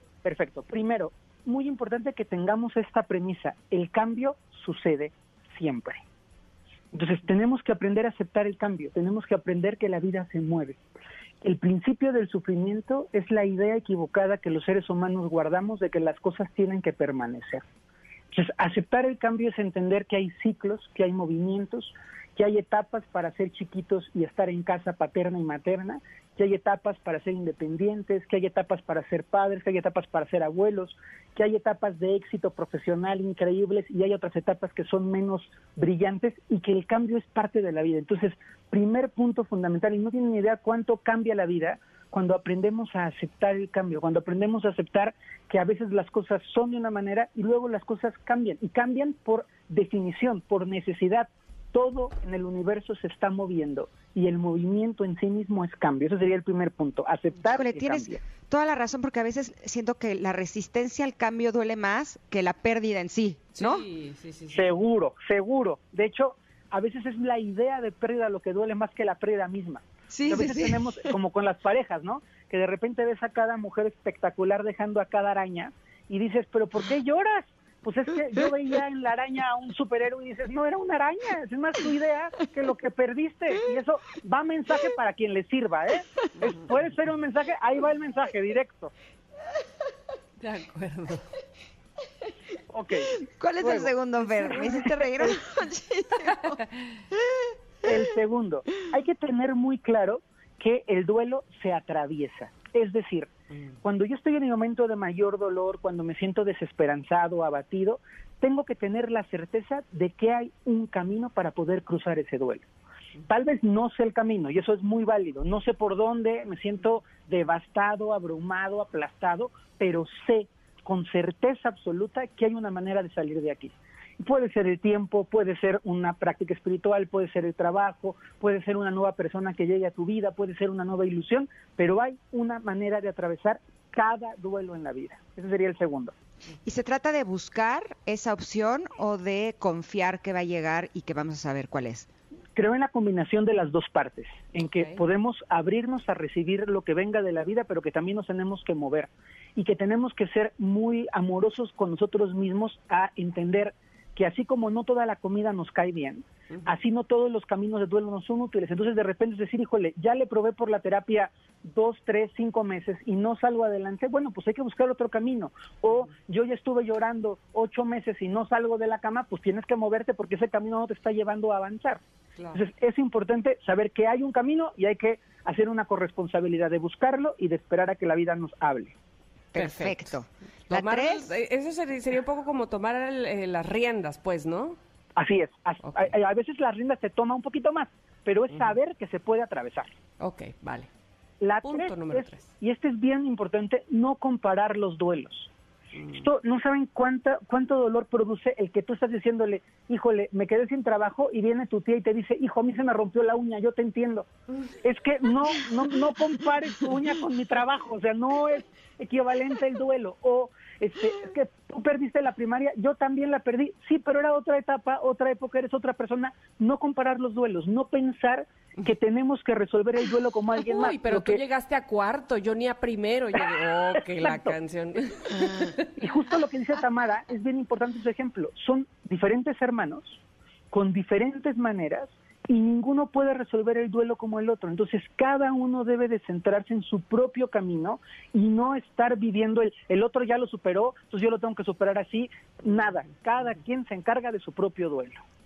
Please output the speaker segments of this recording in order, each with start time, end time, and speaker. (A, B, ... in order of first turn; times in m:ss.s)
0:00.2-0:06.0 A
0:06.9-0:10.8 A
0:11.4-0:17.6 A
0:18.3-0:58.2 A
0:57.4-1:03.8 B
1:03.5-1:04.7 C
1:04.5-1:28.9 A
1:10.1-1:11.0 B
1:30.4-1:31.2 C
1:32.7-1:35.3 A
1:33.2-1:36.6 B
1:37.1-1:37.9 B
1:37.8-1:43.3 A
1:43.8-1:52.6 A
1:53.3-2:16.1 A
2:16.6-2:22.1 B
2:22.6-2:52.0 A
2:52.5-2:58.9 A
2:59.5-3:01.3 B
2:59.6-3:00.1 C
3:00.7-3:04.8 C
3:05.2-3:09.9 A
3:05.8-3:06.1 C
3:10.2-3:10.9 C
3:11.4-3:15.5 A
3:11.6-3:12.5 C
3:16.0-3:16.3 C
3:16.1-3:24.3 A
3:24.8-3:41.4 A
3:40.6-3:45.9 C
3:44.1-3:44.5 A
3:46.0-3:50.2 A
3:50.7-4:05.2 A